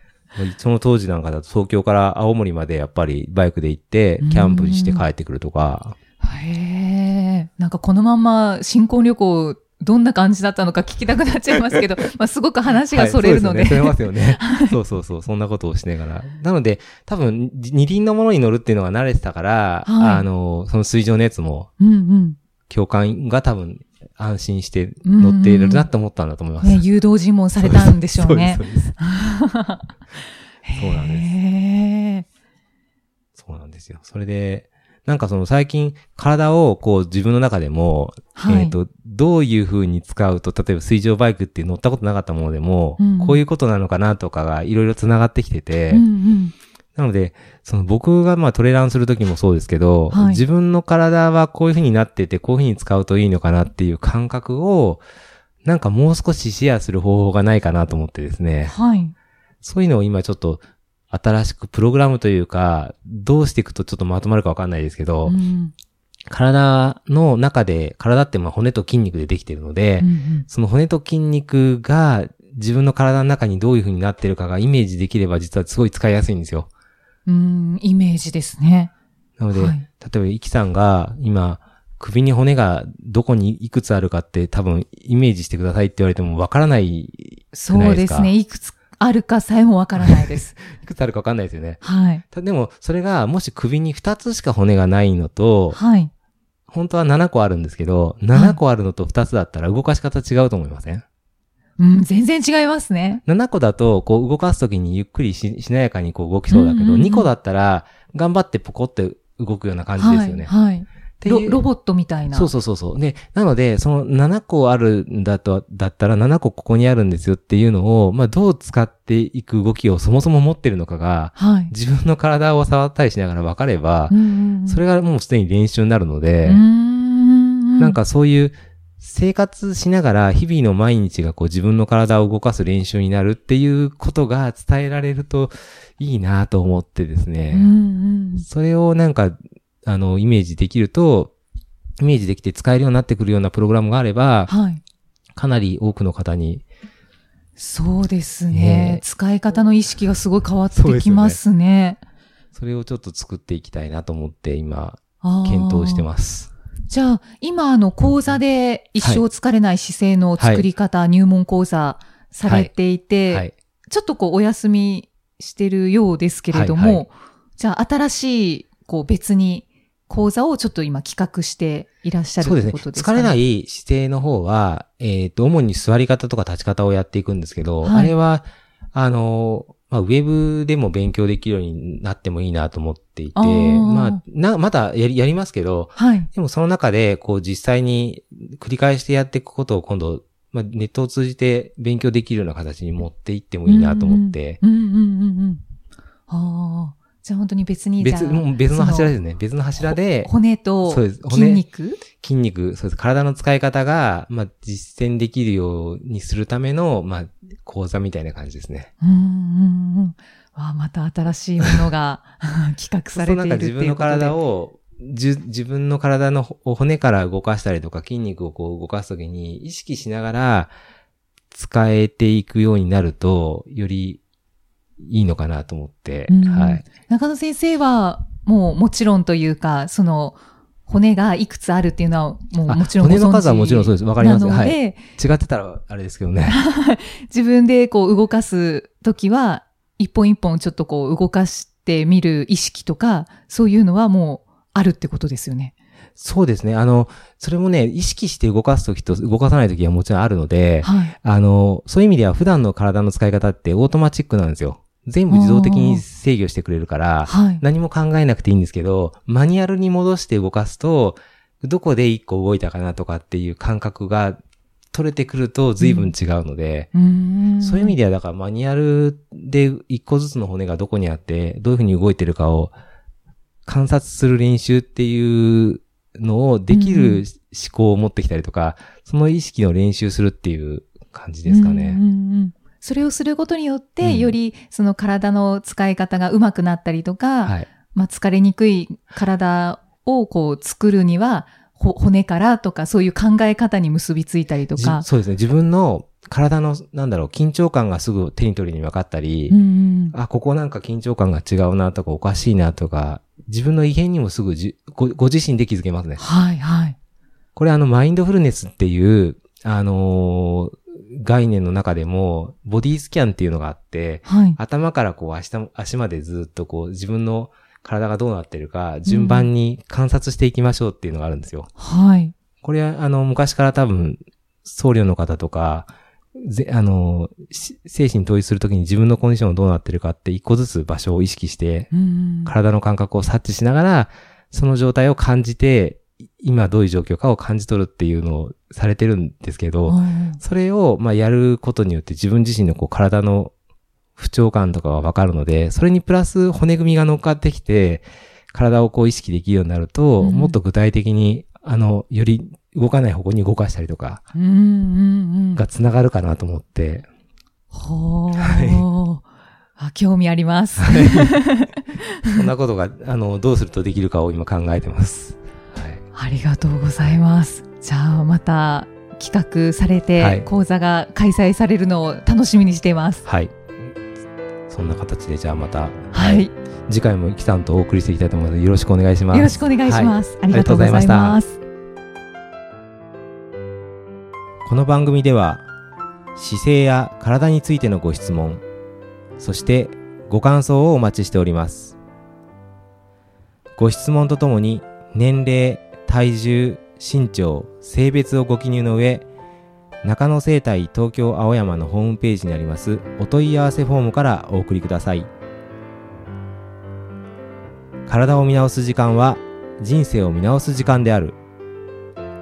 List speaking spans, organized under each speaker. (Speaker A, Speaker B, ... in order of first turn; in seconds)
Speaker A: 0.3-6.0, 12.9-21.7, 22.7-26.8, 27.6-29.0, 30.8-31.3, 33.4-46.1, 47.0-55.0, 55.6-58.7, 59.6-65.4, 66.3-76.7, 79.4-88.3, 90.0-95.8, 96.7-101.0, 103.2-110.5, 111.2-111.6, 112.3-126.6, 127.8-137.7, 138.4-141.3, 142.0-144.5, 145.3-146.6, 148.5-149.0, 150.7-151.4, 152.5-156.5, 159.0-159.2, 160.4-160.6, 162.4-162.7, 166.5-167.1, 172.4-194.6, 198.0-200.3, 200.8-208.9, 213.1-220.7, 221.5-224.2, 225.0-226.8, 232.7-236.6, 246.2-264.4, 264.9-266.9, 267.6-272.7, 273.6-282.0, 284.0-284.4, 287.4-287.7, 294.7-299.6, 300.1-306.2, 307.6-321.7, 322.6-331.9, 332.4-343.5, 344.1-354.2, 355.5-357.1, 358.4-358.9, 360.8-361.3, 362.3-366.0, 370.2-370.5, 373.2-373.6, 374.7-381.4, 384.6-385.6, 386.4-388.6, 389.4-392.0, 393.8-399.3, 400.0-405.3, 408.1-411.4
Speaker B: 4.2-5.0, 6.2-14.8, 19.8-20.2, 21.8-22.4, 25.0-25.9, 26.6-29.8, 30.6-32.2, 38.4-38.8, 43.0-43.4, 45.9-46.5, 50.1-50.4, 58.7-59.1, 65.2-65.7, 70.0-70.5, 77.2-78.9, 79.5-79.8, 87.5-90.5, 91.8-92.2, 95.7-96.1, 98.3-98.6, 101.8-103.2, 106.5-107.3, 110.0-112.5, 121.4-121.7, 124.1-124.8, 126.4-128.0, 137.5-138.5, 144.5-144.8, 147.6-152.0, 155.2-156.1, 156.9-173.4, 177.8-178.1, 183.3-184.2, 186.0-186.3, 193.7-195.6, 196.3-199.1, 200.1-202.0, 209.0-214.3, 226.3-235.1, 236.4-245.7, 250.8-251.1, 255.3-256.0, 257.2-257.6, 265.8-266.1, 266.9-268.0, 276.7-277.2, 281.5-295.0, 299.5-300.1, 306.2-306.9, 314.2-314.6, 319.1-319.5, 321.8-322.3, 331.9-332.5, 339.9-340.4, 350.2-350.6, 354.3-355.6, 357.7-359.2, 359.8-362.1, 366.1-373.2, 376.1-376.5, 379.3-381.6